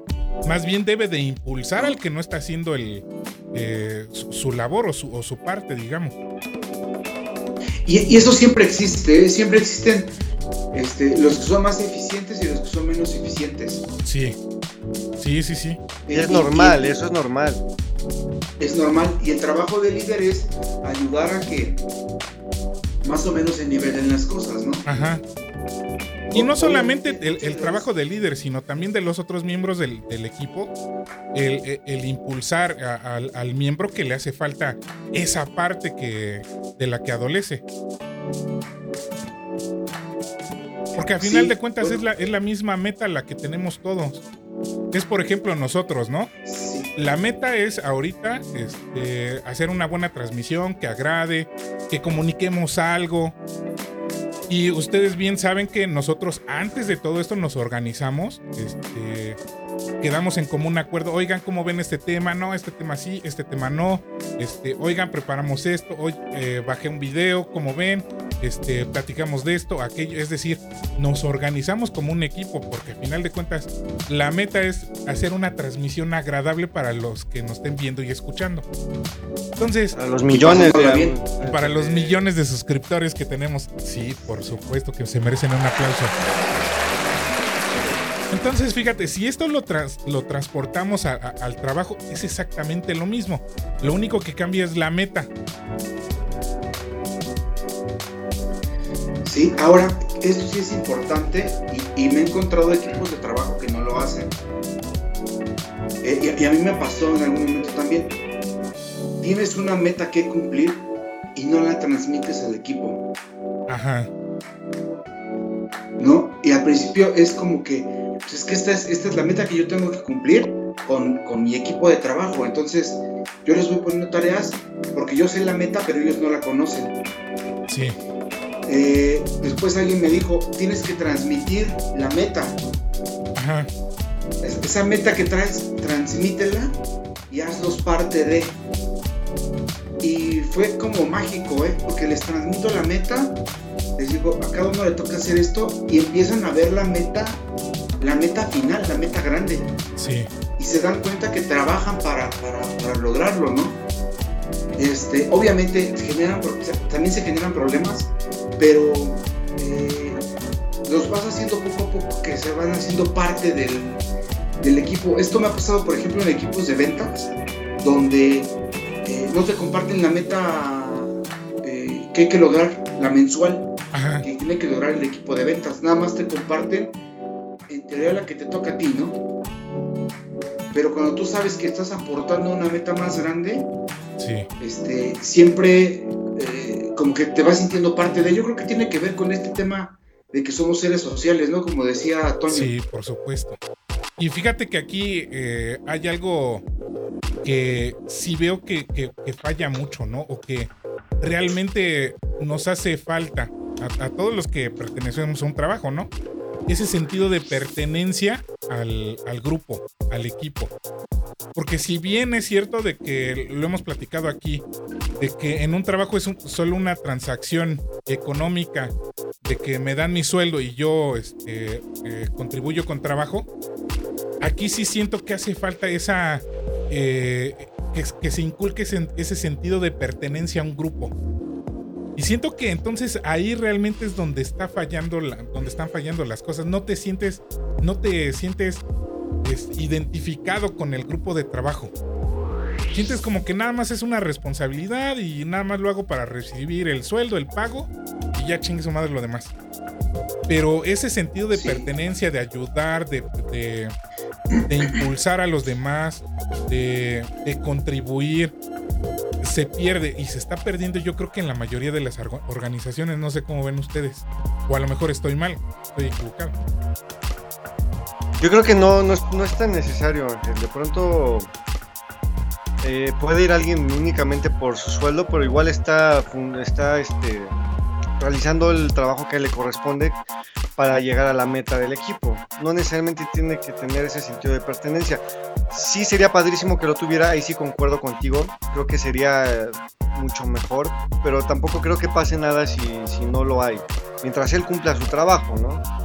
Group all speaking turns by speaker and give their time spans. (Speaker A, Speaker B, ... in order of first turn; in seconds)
Speaker A: 0.4-6.2, 14.1-14.4, 15.2-15.8, 24.9-25.2, 26.3-30.7, 31.3-37.6, 41.0-44.2, 44.9-46.3, 47.0-53.4, 54.5-59.4, 60.0-78.7, 79.6-80.0, 81.4-86.1, 88.3-95.3, 113.7-114.1, 127.7-128.0, 133.4-133.7, 150.0-150.3, 173.9-174.3, 184.2-184.5, 192.5-193.6, 194.2-196.6, 197.4-206.1, 206.7-210.7, 211.6-214.7, 215.2-218.9, 219.4-223.5, 224.4-231.1, 232.2-238.8, 239.4-241.9, 242.9-249.5, 250.5-253.9, 254.7-258.6, 259.4-266.6
Speaker B: 7.8-10.2, 10.7-13.8, 16.1-16.8, 18.6-21.8, 23.0-24.9, 26.3-27.9, 41.2-42.0, 46.5-46.9, 80.3-81.2, 99.2-104.3, 106.0-108.2, 109.2-113.1, 116.0-126.9, 128.7-132.6, 134.4-136.8, 137.3-138.6, 140.0-143.4, 144.0-147.4, 148.0-149.7, 150.6-153.8, 154.8-160.2, 160.8-164.0, 164.6-168.5, 169.1-177.0, 177.7-179.2, 180.7-183.7, 184.6-192.7, 251.5-251.9
Speaker C: 16.1-17.6, 79.9-82.3, 268.4-271.5, 272.8-277.5, 278.2-280.2, 280.8-295.8